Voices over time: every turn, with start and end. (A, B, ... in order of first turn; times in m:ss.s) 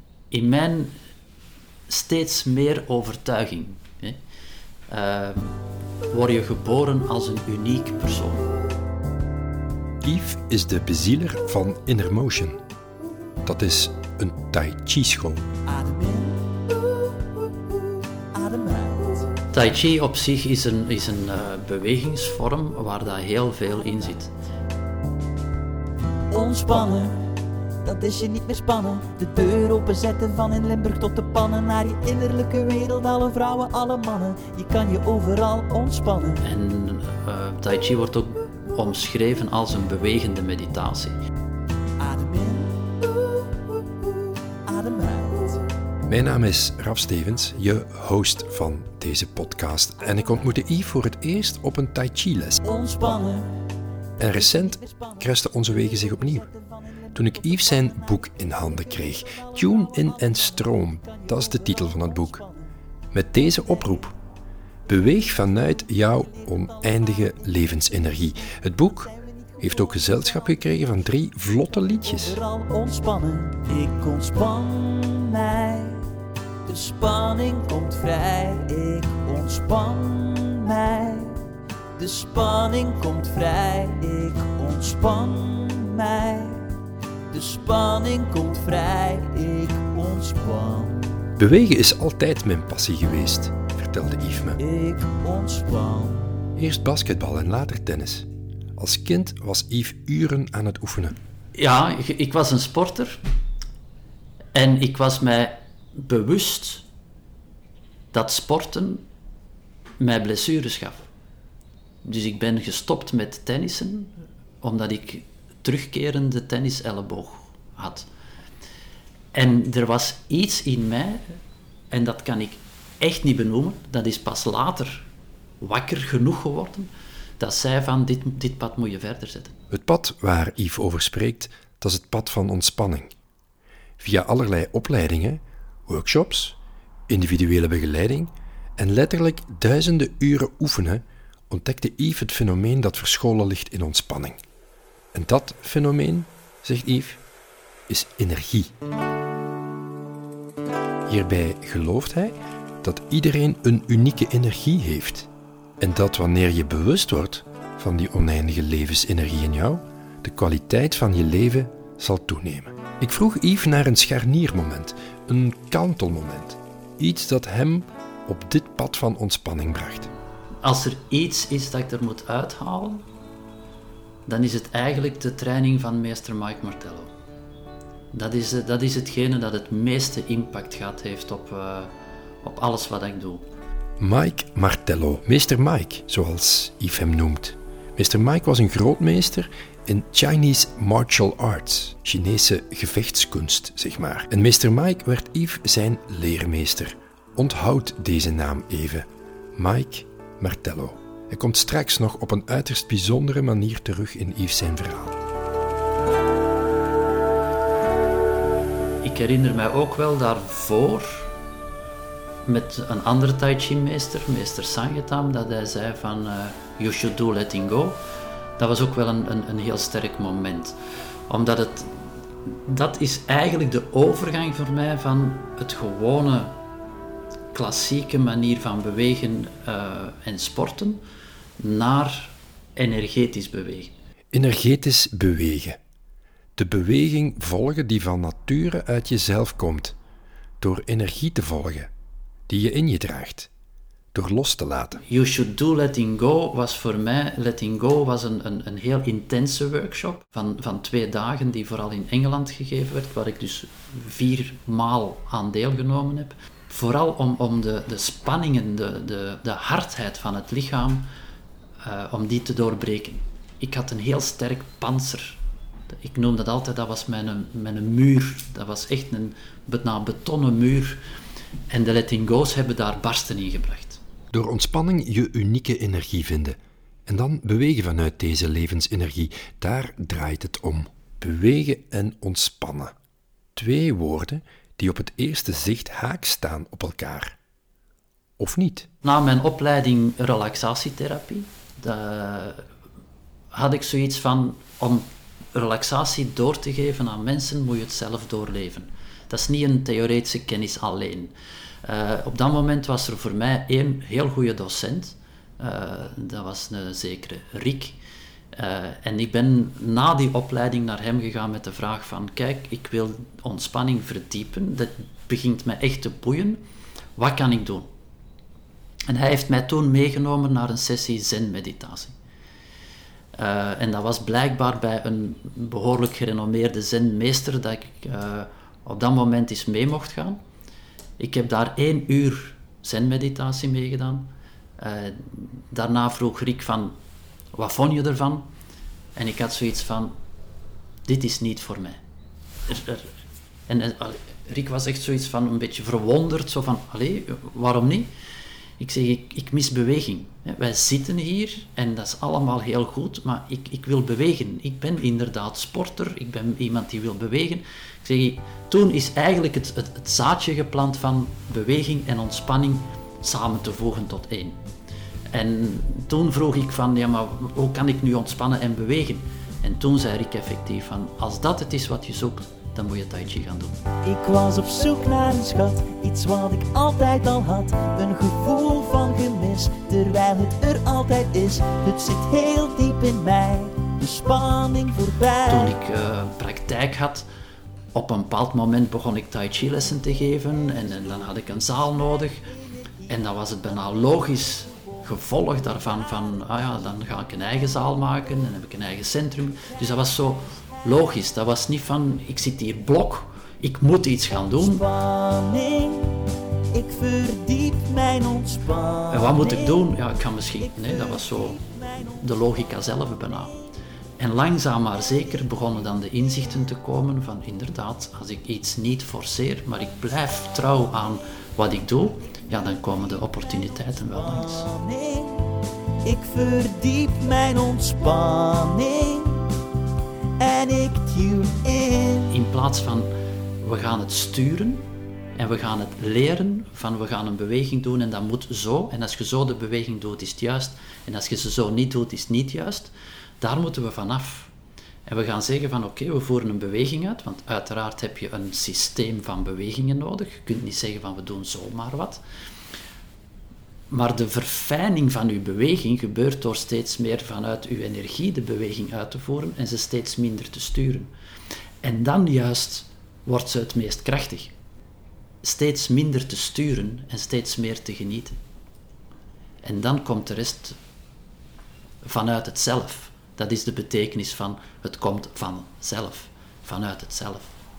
0:00.3-0:01.0 A
0:01.9-0:04.2 A
0:04.9-0:05.6 A
0:06.1-0:08.5 A
0:10.0-0:12.6 B
0:13.4-0:15.4 B
0:15.6-0:17.2 C
0:18.3-0:19.3 C
0:19.5-0:24.3 A
0:26.3-0:27.3 C
0:27.8-0:36.4 C
0:36.4-0:41.2 A
0:42.0-0:44.1 C
0:44.6-0:45.6 C
0:46.0-0:52.6 B
0:52.6-0:53.5 C
0:54.2-0:56.5 B
0:54.4-0:55.2 C
0:55.8-0:58.1 C
0:57.1-1:02.4 B
0:59.2-1:02.6 C
1:03.1-1:04.1 B
1:04.9-1:12.4 B
1:06.4-1:07.2 C
1:09.9-1:10.2 C
1:12.0-1:16.1 C
1:16.6-1:21.4 C
1:22.0-1:26.7 C
1:27.3-1:31.1 C
1:31.4-1:34.6 B
1:34.6-1:36.4 C
1:36.6-1:38.2 B
1:38.8-1:41.1 B
1:41.5-1:43.2 A
1:44.5-1:46.8 A
1:48.1-1:49.0 A
1:50.0-1:51.1 A
1:52.0-1:58.1 A
1:59.3-2:01.4 A
2:01.9-2:05.0 A
2:05.6-2:09.6 A
2:09.7-2:13.1 B
2:14.0-2:16.6 B
2:17.1-2:24.4 B
2:25.1-2:27.2 B
2:27.9-2:28.7 B
2:31.1-2:35.3 B
2:35.8-2:50.1 B
2:50.6-2:53.0 A
2:54.2-2:57.1 A
2:58.1-3:01.9 A
3:02.4-3:03.4 A
3:04.0-3:25.2 B
3:29.0-3:31.3 A
3:32.4-3:38.0 A
3:38.6-3:40.8 A
3:41.3-3:41.9 A
3:42.5-3:46.5 A
3:47.5-3:51.0 A
3:51.6-3:53.9 A
3:54.3-3:55.8 B
3:56.6-4:00.0 B
4:00.6-4:01.9 B
4:02.5-4:03.5 B
4:04.1-4:05.0 B
4:05.0-4:21.1 A
4:21.8-4:25.4 A
4:25.9-4:31.0 A
4:31.7-4:34.0 A
4:34.3-4:42.9 B
4:43.6-4:47.4 B
4:48.4-4:48.9 B
4:49.0-4:52.6 A
4:53.5-5:08.0 A
5:08.5-5:16.6 A
5:17.2-5:17.9 A
5:19.1-5:22.1 A
5:23.3-5:30.4 A
5:31.2-5:37.0 A
5:37.5-5:38.5 A
5:39.2-5:40.1 A
5:41.0-5:42.0 A
5:42.7-5:43.1 A
5:43.7-5:48.1 A
5:48.8-6:04.6 A
6:05.3-6:13.8 A
6:14.0-6:25.8 C
6:25.5-6:27.3 A
6:27.9-6:32.4 A
6:33.0-6:44.8 A
6:44.6-6:49.8 C
6:49.1-6:53.6 A
6:51.0-6:51.8 C
6:54.2-7:04.7 A
7:04.1-7:05.5 C
7:06.0-7:09.6 C
7:10.4-7:12.4 C
7:12.3-7:24.5 A
7:25.0-7:32.2 A
7:33.9-7:41.1 A
7:41.8-7:44.5 A
7:45.4-7:48.4 A
7:49.6-7:50.8 A
7:52.0-7:57.6 A